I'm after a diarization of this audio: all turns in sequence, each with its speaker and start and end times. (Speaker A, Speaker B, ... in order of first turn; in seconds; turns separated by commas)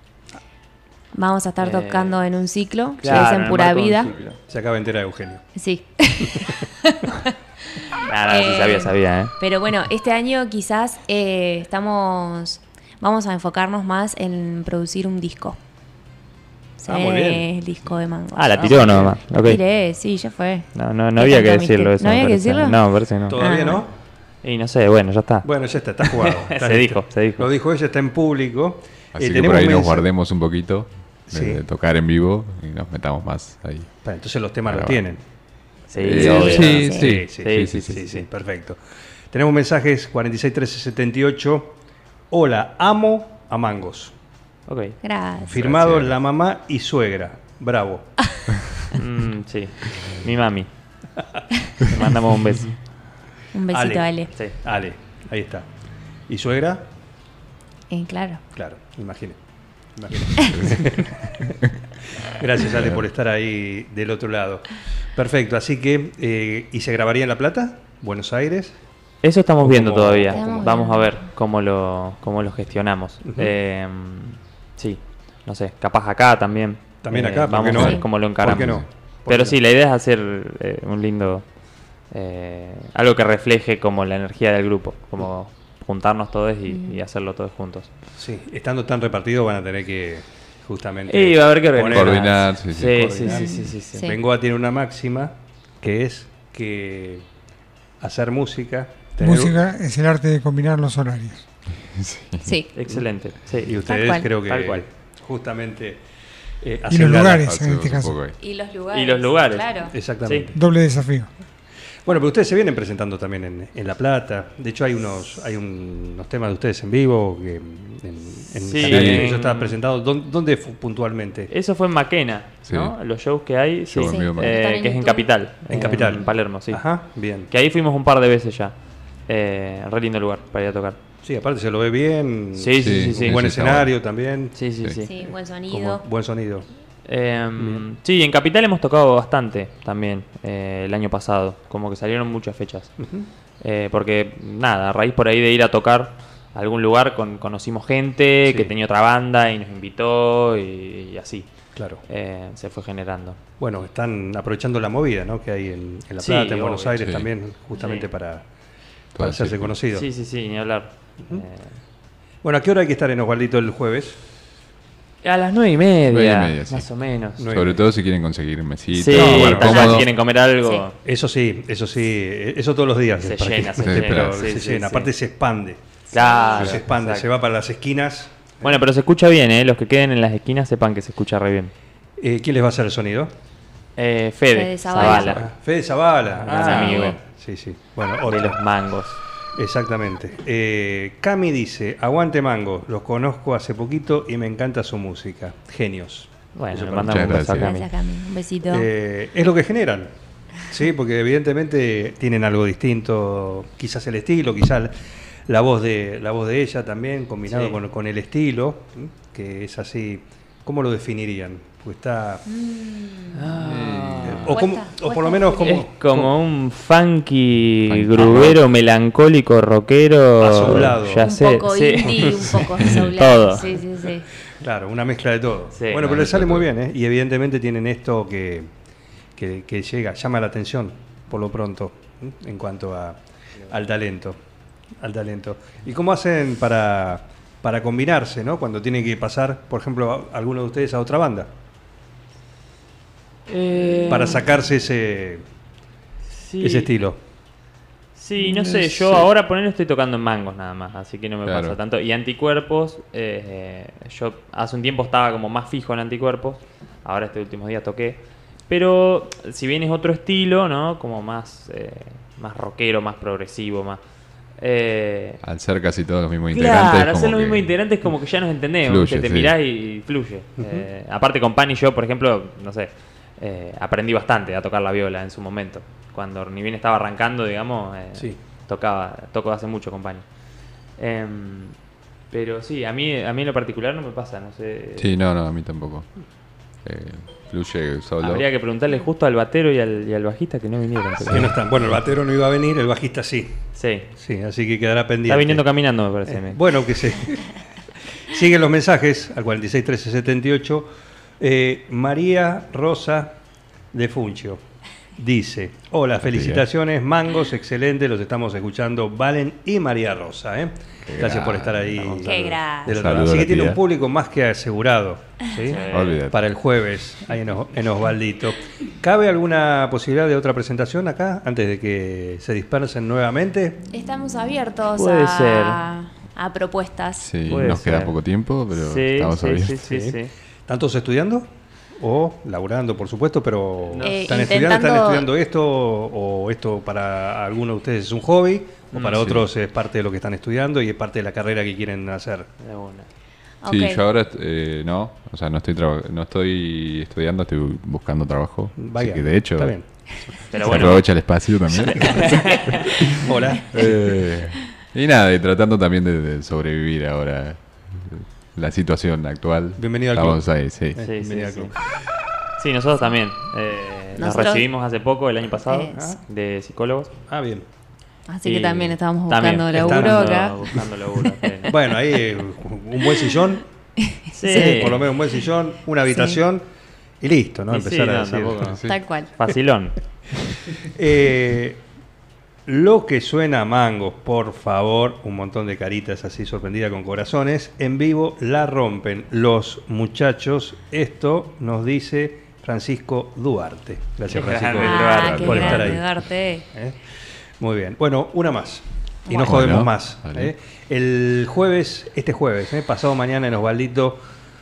Speaker A: 1.1-4.1, Speaker B: 1.6-2.2, Speaker B: 3.0-4.4, Speaker C: 4.4-5.4, Speaker A: 5.5-15.6, Speaker C: 6.2-6.5, Speaker B: 8.0-9.3, Speaker A: 16.8-22.8, Speaker C: 16.8-17.5, Speaker B: 18.3-19.6, Speaker C: 18.6-19.1, Speaker B: 20.7-23.4, Speaker C: 23.3-23.9, Speaker A: 23.4-23.8, Speaker B: 24.4-25.5, Speaker C: 25.4-30.1, Speaker B: 26.0-27.5, Speaker D: 29.1-33.9, Speaker C: 31.3-31.6, Speaker C: 34.0-35.2, Speaker D: 34.7-35.0, Speaker B: 35.9-38.2, Speaker C: 36.0-38.8, Speaker D: 36.0-38.0, Speaker A: 36.7-37.0, Speaker C: 39.3-41.8, Speaker C: 42.3-44.1, Speaker B: 44.7-45.0, Speaker A: 45.0-45.5, Speaker C: 45.4-48.1, Speaker D: 45.5-46.1, Speaker B: 48.9-50.7, Speaker B: 51.8-52.7, Speaker A: 53.5-54.3, Speaker C: 53.7-55.7, Speaker C: 56.3-56.9, Speaker A: 57.9-58.4, Speaker C: 58.5-59.4, Speaker C: 59.9-61.6, Speaker D: 60.5-60.9, Speaker C: 62.1-68.8, Speaker B: 69.2-81.5, Speaker C: 69.6-70.9, Speaker A: 70.3-71.2, Speaker C: 73.2-73.5, Speaker C: 77.0-79.6, Speaker D: 77.7-78.8, Speaker B: 82.1-87.9, Speaker A: 86.7-87.0, Speaker C: 88.2-97.2, Speaker B: 91.1-94.1, Speaker D: 91.8-93.2, Speaker A: 93.2-94.2, Speaker C: 98.0-99.6, Speaker E: 99.2-101.4, Speaker D: 101.8-102.5, Speaker A: 102.4-102.7, Speaker B: 102.7-103.8, Speaker C: 103.6-106.0, Speaker A: 103.8-104.3, Speaker B: 104.4-104.8, Speaker C: 106.6-107.5, Speaker E: 106.9-108.2, Speaker D: 107.4-108.3, Speaker A: 108.4-109.9, Speaker B: 108.9-110.5, Speaker C: 109.9-110.6, Speaker E: 110.5-111.3, Speaker C: 112.0-121.5, Speaker B: 118.6-119.8, Speaker D: 118.8-119.3, Speaker B: 121.5-126.8, Speaker D: 122.7-122.9, Speaker D: 123.9-124.6, Speaker A: 124.1-125.3, Speaker C: 125.7-127.5, Speaker B: 127.5-128.7, Speaker B: 129.3-131.0, Speaker C: 131.2-134.6, Speaker B: 132.5-133.4, Speaker D: 132.8-133.9, Speaker B: 134.5-135.1, Speaker A: 135.0-136.0, Speaker C: 135.7-136.7, Speaker B: 137.1-142.9, Speaker C: 137.6-137.8, Speaker C: 143.0-143.3, Speaker B: 143.6-151.5, Speaker C: 148.4-148.7, Speaker C: 151.7-152.0, Speaker B: 152.1-153.4, Speaker C: 153.6-158.4, Speaker B: 156.2-157.1, Speaker D: 157.0-157.3, Speaker B: 157.7-158.1, Speaker D: 159.1-159.7, Speaker C: 159.1-160.1, Speaker B: 159.9-161.7, Speaker C: 162.4-164.2, Speaker B: 165.2-167.5, Speaker D: 166.1-166.9, Speaker C: 167.4-167.9, Speaker D: 167.5-170.1, Speaker B: 168.9-170.9, Speaker C: 169.1-169.9, Speaker A: 169.5-170.0, Speaker C: 171.0-175.8, Speaker B: 173.2-175.1, Speaker D: 173.8-174.4, Speaker A: 176.1-176.8, Speaker B: 176.1-177.3, Speaker C: 176.5-178.8, Speaker B: 178.6-181.7, Speaker C: 182.2-183.3, Speaker B: 184.0-185.5, Speaker A: 184.5-185.4, Speaker C: 185.0-188.6, Speaker B: 186.4-187.2, Speaker A: 186.7-187.1, Speaker B: 188.2-189.2, Speaker C: 189.6-197.5, Speaker B: 196.6-197.9, Speaker D: 197.0-197.7, Speaker A: 197.5-198.9, Speaker C: 198.7-200.1, Speaker C: 200.7-204.9, Speaker C: 205.5-212.4, Speaker B: 207.5-207.8, Speaker A: 212.5-213.5, Speaker B: 213.3-214.5, Speaker D: 213.6-214.6, Speaker C: 214.2-216.3, Speaker A: 214.5-215.8, Speaker B: 215.6-223.7, Speaker D: 217.9-218.6, Speaker C: 220.4-221.3, Speaker A: 221.2-224.3, Speaker C: 222.1-222.6, Speaker C: 224.5-228.7, Speaker B: 225.7-226.1, Speaker D: 226.0-226.7, Speaker C: 229.3-234.4, Speaker C: 235.0-241.5, Speaker B: 243.5-244.5, Speaker C: 244.1-245.4, Speaker B: 246.3-246.9, Speaker C: 246.6-247.2, Speaker B: 248.2-264.0, Speaker D: 248.6-249.2, Speaker D: 251.4-251.8, Speaker B: 264.6-265.4, Speaker D: 265.4-267.7, Speaker B: 266.5-280.2, Speaker D: 268.8-269.5, Speaker C: 270.6-270.9, Speaker B: 281.0-281.8, Speaker B: 282.3-285.1, Speaker D: 285.0-286.1, Speaker D: 286.8-288.4, Speaker B: 288.2-291.5, Speaker D: 291.2-291.5, Speaker C: 291.3-293.6, Speaker B: 293.7-294.1, Speaker C: 294.1-295.6, Speaker B: 295.3-296.6, Speaker C: 296.2-297.6, Speaker C: 298.1-300.9, Speaker C: 301.4-303.4, Speaker C: 303.9-304.6, Speaker C: 305.2-323.8, Speaker D: 306.2-306.6, Speaker D: 311.1-312.1, Speaker A: 312.1-312.9, Speaker D: 312.9-313.8, Speaker B: 315.6-316.2, Speaker D: 315.9-316.4, Speaker A: 323.9-327.3, Speaker B: 324.9-325.8, Speaker D: 327.2-329.9, Speaker B: 327.4-328.1, Speaker B: 328.7-330.3, Speaker C: 329.8-342.5, Speaker B: 333.9-334.4, Speaker A: 334.0-335.3, Speaker B: 338.9-339.2, Speaker D: 339.1-339.5, Speaker B: 342.6-343.1, Speaker A: 343.6-344.0, Speaker D: 343.6-349.8, Speaker C: 348.8-349.9, Speaker B: 350.5-351.1, Speaker D: 350.5-353.2, Speaker C: 350.5-350.9, Speaker B: 351.7-353.2, Speaker C: 352.0-353.9, Speaker D: 353.7-361.0, Speaker C: 359.8-360.4, Speaker C: 360.9-361.7, Speaker B: 361.0-361.7, Speaker B: 362.6-367.1, Speaker A: 364.1-364.7, Speaker A: 365.6-366.2, Speaker C: 365.9-366.2, Speaker C: 367.3-367.6, Speaker A: 368.3-370.7, Speaker B: 368.4-371.7, Speaker C: 369.7-370.5, Speaker C: 371.6-373.6, Speaker B: 374.3-375.1, Speaker A: 374.4-374.9, Speaker C: 374.5-376.6, Speaker A: 376.1-376.4, Speaker C: 377.2-378.8, Speaker B: 377.7-379.9, Speaker D: 378.6-379.0, Speaker A: 378.8-379.3, Speaker C: 380.8-381.8, Speaker C: 382.6-396.2, Speaker B: 394.3-396.0, Speaker A: 394.7-396.6, Speaker C: 396.7-397.0, Speaker C: 397.6-404.2, Speaker A: 399.3-399.6, Speaker D: 399.4-400.5